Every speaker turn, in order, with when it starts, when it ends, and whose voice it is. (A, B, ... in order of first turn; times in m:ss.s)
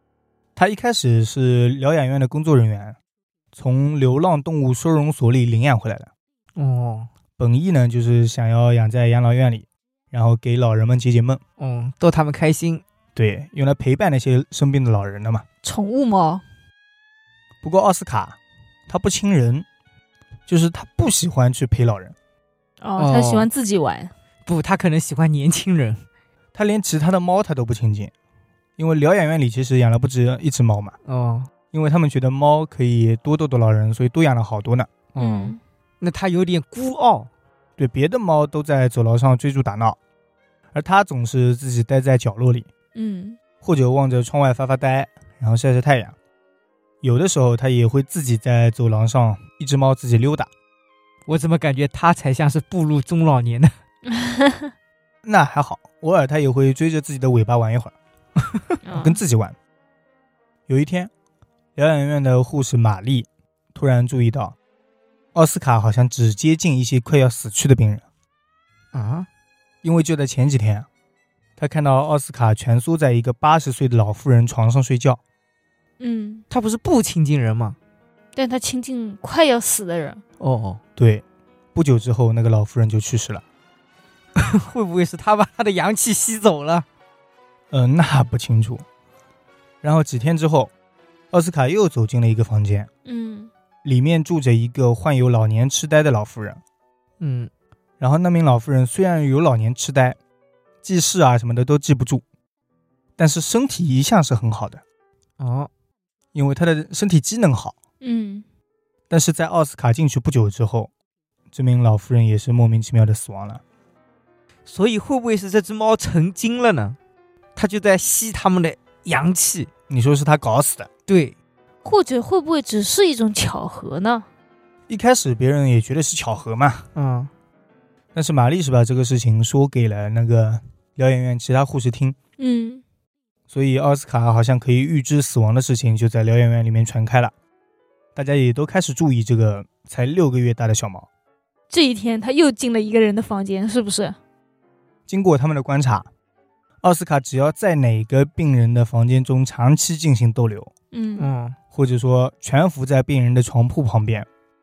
0:00.6-0:03.0 A
0:03.5-0:06.1 A
0:06.6-0:07.1 B
0:07.4-0:11.4 A
0:11.6-0:12.8 B
0:13.1-0:15.4 A
0:15.6-0:16.4 C
0:17.6-0:18.4 A
0:18.9-0:19.6 A
0:20.5-0:22.1 A
0:22.8-0:24.1 C
0:23.0-0:23.5 B
0:24.4-0:26.0 B
0:26.5-0:28.1 A
0:28.8-0:31.0 A
0:31.0-0:31.5 B
0:31.7-0:34.9 A
0:35.1-0:37.3 B
0:35.2-0:35.6 C
0:37.8-0:40.0 A
0:40.7-0:42.7 A
0:42.9-0:43.4 C
0:43.6-0:46.1 A
0:47.0-0:50.5 A
0:51.3-0:53.7 B
0:54.1-0:54.7 C
0:55.2-0:57.9 A
0:58.8-0:59.2 C
0:59.0-0:59.6 A
1:00.7-1:01.1 A
1:01.8-1:04.6 A
1:05.3-1:08.0 A
1:08.9-1:09.3 B
1:09.8-1:10.9 A
1:11.6-1:15.2 A
1:16.0-1:16.4 C
1:16.5-1:17.8 B
1:18.3-1:20.2 C
1:20.4-1:20.8 B
1:21.0-1:21.2 A
1:21.7-1:23.4 A
1:24.4-1:26.8 B
1:27.7-1:28.8 A
1:29.8-1:30.7 A
1:31.3-1:32.9 A
1:33.0-1:33.5 C
1:33.8-1:36.6 A
1:37.2-1:37.5 B
1:38.0-1:40.2 A
1:40.8-1:42.2 A
1:43.2-1:44.8 A
1:45.4-1:45.7 B
1:46.3-1:47.7 A
1:48.0-1:48.4 C
1:49.1-1:50.9 A
1:51.5-1:53.6 A
1:54.6-1:57.0 B
1:57.6-1:59.7 B
1:59.9-2:00.9 A
2:01.1-2:01.4 B
2:01.8-2:04.2 C
2:04.9-2:06.9 A
2:06.9-2:07.3 B
2:08.1-2:12.2 A
2:12.4-2:12.8 C
2:13.5-2:17.3 A
2:18.2-2:21.1 A
2:21.7-2:24.2 C
2:25.1-2:26.1 A
2:26.8-2:30.7 A
2:30.9-2:31.3 C
2:31.2-2:31.6 B
2:31.7-2:34.3 A